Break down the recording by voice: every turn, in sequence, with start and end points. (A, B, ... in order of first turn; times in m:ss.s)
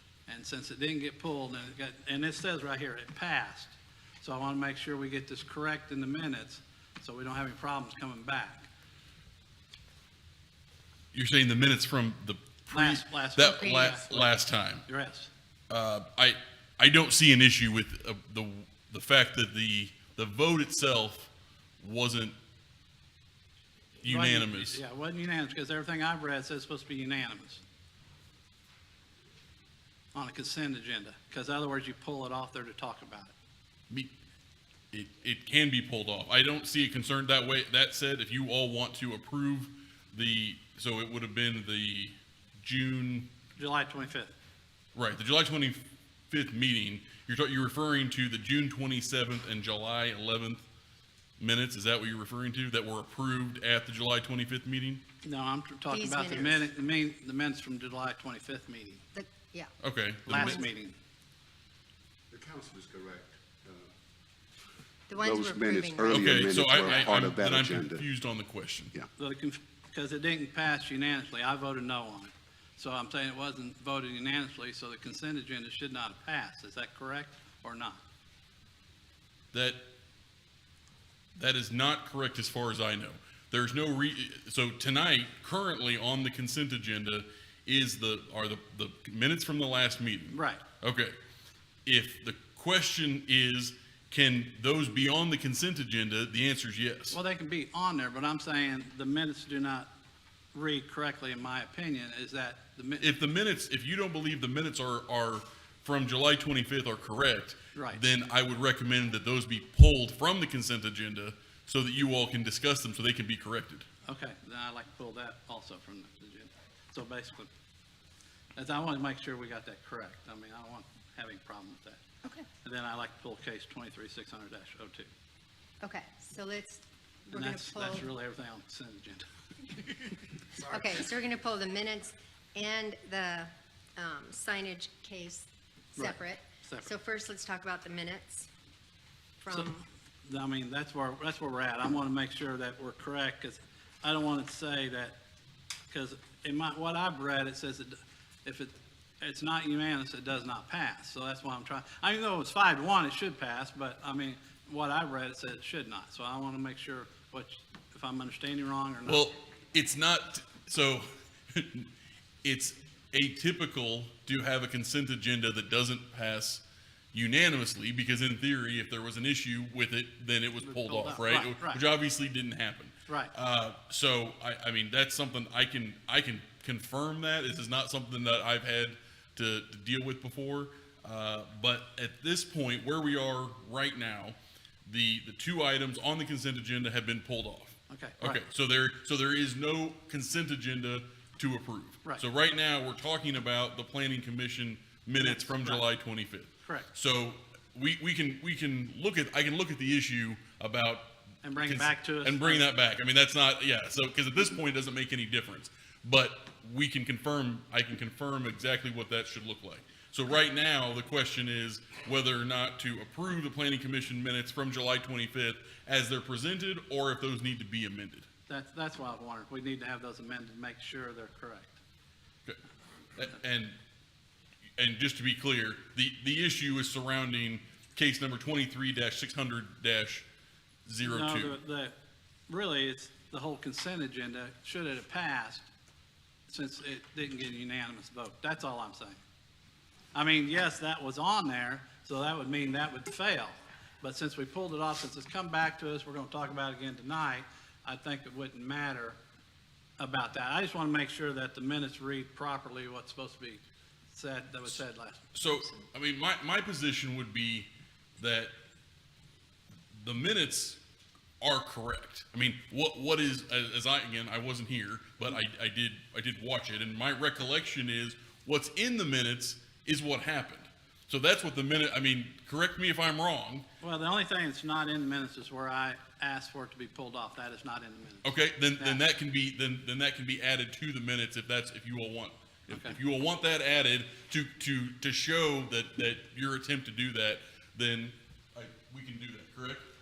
0:00.3-0:08.7 A
0:11.1-0:14.8 B
0:12.7-0:15.3 A
0:13.4-0:14.0 C
0:15.7-0:22.3 B
0:24.0-0:24.8 B
0:24.0-0:27.6 A
0:30.1-0:33.3 A
0:34.9-0:43.3 B
0:43.6-0:44.3 A
0:44.9-0:50.6 B
0:51.4-0:55.0 B
0:55.2-0:59.0 A
0:55.9-0:56.7 C
0:59.1-0:59.7 C
0:59.8-1:00.6 B
1:00.3-1:01.0 A
1:00.3-1:00.6 C
1:02.3-1:03.9 D
1:05.1-1:07.1 C
1:05.2-1:08.0 D
1:06.1-1:08.9 B
1:09.2-1:18.0 A
1:19.5-1:19.8 B
1:21.4-1:31.1 B
1:30.3-1:30.6 A
1:31.8-1:37.2 B
1:37.1-1:39.9 A
1:40.5-1:43.1 A
1:43.0-1:53.9 B
1:47.7-1:48.0 A
1:54.0-1:57.5 A
1:58.6-2:02.0 A
2:02.6-2:05.1 A
2:05.8-2:08.0 C
2:07.3-2:09.3 A
2:10.6-2:18.5 C
2:16.0-2:16.9 A
2:19.4-2:19.8 C
2:19.5-2:25.2 A
2:25.9-2:39.3 A
2:39.0-2:41.9 B
2:42.4-2:46.6 B
2:47.1-3:38.3 B
2:50.6-2:51.8 A
2:53.1-2:53.3 A
3:07.9-3:08.4 A
3:15.2-3:15.8 A
3:16.6-3:16.9 A
3:21.4-3:22.7 A
3:38.5-3:41.8 A
3:43.2-3:43.8 B
3:44.8-3:50.2 B
3:50.8-3:51.6 B
3:51.0-3:51.9 A
3:52.5-3:55.7 A
3:56.5-3:59.2 A
4:00.1-4:09.2 A
4:10.0-4:15.7 A
4:15.3-4:18.5 B
4:20.0-4:20.8 B
4:21.4-4:33.6 B
4:33.8-4:39.0 A
4:38.2-4:49.8 B
4:42.7-4:43.0 A